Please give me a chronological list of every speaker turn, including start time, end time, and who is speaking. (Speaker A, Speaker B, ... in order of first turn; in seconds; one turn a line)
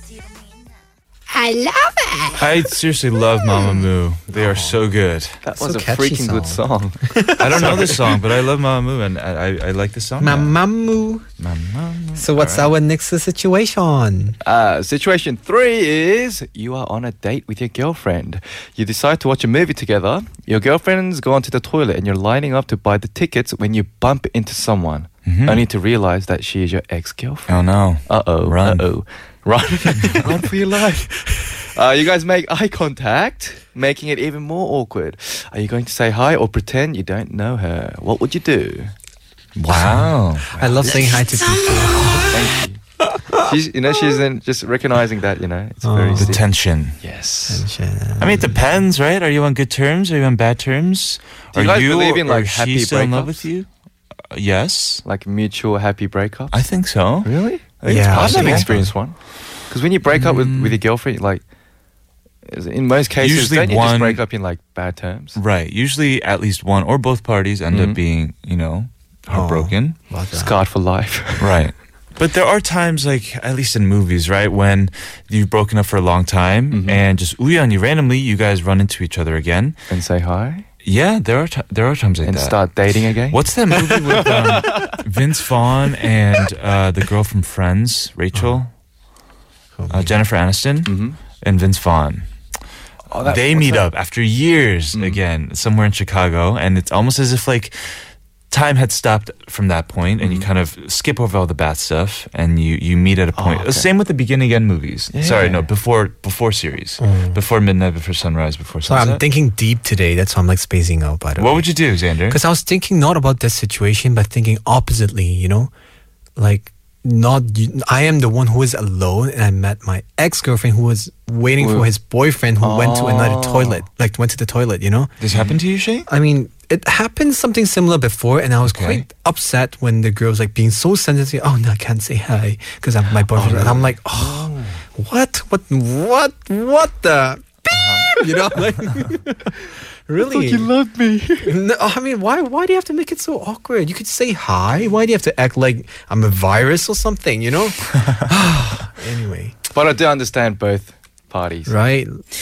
Speaker A: 2.4-5.4
Speaker B: 4.3-4.8
Speaker C: 5.4-8.0
Speaker B: 5.5-8.0
Speaker A: 7.4-10.5
Speaker B: 10.2-11.2
Speaker A: 11.4-12.7
Speaker B: 12.2-14.4
Speaker C: 14.4-38.9
Speaker A: 25.2-25.6
Speaker A: 27.5-28.9
Speaker A: 30.0-30.3
Speaker A: 39.5-41.1
Speaker B: 39.7-42.3
Speaker C: 40.6-40.9
Speaker C: 42.3-46.4
Speaker B: 43.1-43.5
Speaker B: 45.8-46.4
Speaker A: 46.2-47.0
Speaker C: 47.0-47.6
Speaker B: 47.5-48.6
Speaker A: 48.2-53.7
Speaker C: 51.5-53.5
Speaker A: 54.3-55.0
Speaker C: 55.0-56.6
Speaker A: 56.5-57.3
Speaker C: 57.2-61.4
Speaker B: 57.9-58.7
Speaker A: 58.0-58.9
Speaker A: 60.1-60.8
Speaker C: 62.5-65.4
Speaker A: 63.2-64.2
Speaker A: 65.3-70.0
Speaker C: 67.7-68.0
Speaker B: 69.3-70.5
Speaker C: 70.3-71.6
Speaker A: 71.4-79.8
Speaker C: 76.7-77.0
Speaker C: 79.9-80.6
Speaker A: 80.8-82.6
Speaker C: 82.2-85.0
Speaker A: 83.3-88.7
Speaker B: 88.3-88.6
Speaker B: 89.8-90.1
Speaker A: 89.9-92.3
Speaker C: 90.8-91.2
Speaker C: 93.1-93.9
Speaker A: 93.2-97.8
Speaker A: 98.5-109.2
Speaker C: 100.2-100.5
Speaker C: 103.3-103.9
Speaker C: 105.1-105.6
Speaker B: 107.0-107.4
Speaker B: 108.8-111.7
Speaker A: 111.4-112.4
Speaker B: 112.3-115.7
Speaker B: 116.4-125.1
Speaker C: 121.6-121.9
Speaker C: 122.6-123.8
Speaker A: 125.2-126.1
Speaker C: 125.3-125.5
Speaker B: 126.1-140.7
Speaker A: 128.6-129.1
Speaker C: 133.3-133.9
Speaker A: 134.2-134.8
Speaker A: 137.7-138.1
Speaker C: 140.2-141.6
Speaker B: 141.4-149.5
Speaker C: 149.7-151.7
Speaker B: 151.7-152.2